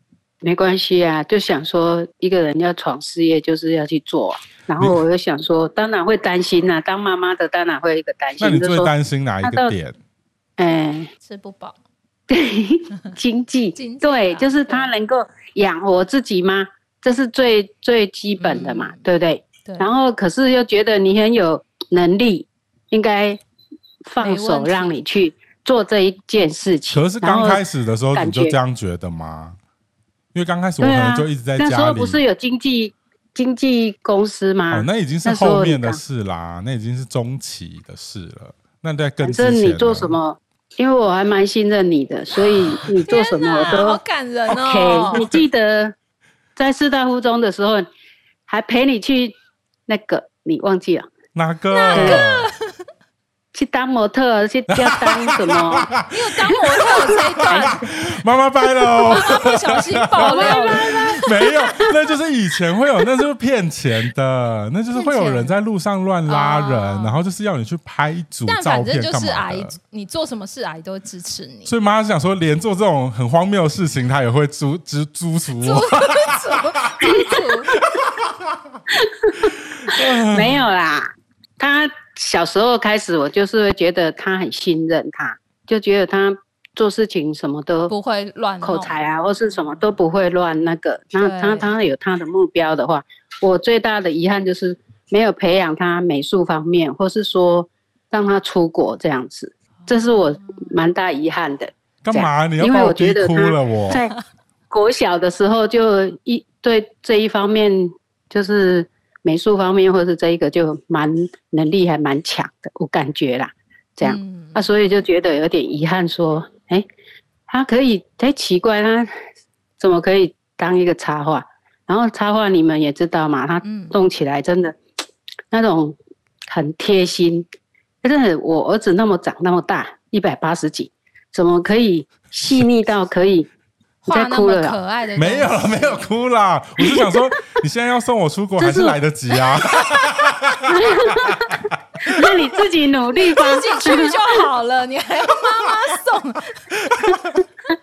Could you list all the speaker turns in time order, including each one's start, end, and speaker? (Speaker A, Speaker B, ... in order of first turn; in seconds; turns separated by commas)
Speaker A: 0.4-8.9, Speaker B: 8.4-10.0, Speaker A: 9.4-9.7, Speaker A: 10.6-11.1, Speaker C: 11.2-11.8, Speaker A: 12.3-23.4, Speaker C: 13.7-14.9, Speaker C: 18.4-19.0, Speaker A: 24.1-27.6, Speaker C: 24.2-24.9, Speaker B: 26.9-29.6, Speaker A: 28.1-28.6, Speaker B: 30.3-32.2, Speaker A: 30.8-36.0, Speaker B: 34.7-40.1, Speaker A: 39.2-44.0, Speaker C: 43.0-45.3, Speaker A: 44.5-45.9, Speaker A: 46.5-47.9, Speaker A: 48.5-49.3, Speaker A: 49.9-51.1, Speaker B: 51.3-52.5, Speaker C: 51.7-52.8, Speaker A: 51.9-52.2, Speaker A: 53.5-55.9, Speaker B: 54.7-69.8, Speaker C: 56.1-57.9, Speaker C: 58.9-61.3, Speaker A: 60.2-61.9, Speaker C: 64.9-65.6, Speaker C: 66.3-67.2, Speaker C: 68.5-71.7, Speaker B: 71.7-78.8, Speaker C: 75.6-77.8, Speaker A: 78.9-87.9, Speaker B: 79.4-80.7, Speaker C: 87.9-89.0, Speaker A: 88.6-104.1, Speaker C: 91.2-91.7, Speaker C: 100.0-100.7, Speaker B: 102.0-104.0, Speaker A: 104.7-116.8, Speaker C: 114.0-114.7, Speaker A: 117.5-119.1, Speaker A: 119.8-124.8, Speaker C: 123.6-124.0, Speaker A: 125.5-126.0, Speaker A: 126.5-127.5, Speaker A: 128.0-133.5, Speaker C: 134.0-136.0, Speaker A: 134.1-134.8, Speaker B: 135.2-142.4, Speaker A: 136.8-137.2, Speaker A: 138.6-139.0, Speaker A: 140.7-144.4, Speaker C: 143.2-146.7, Speaker B: 146.8-147.4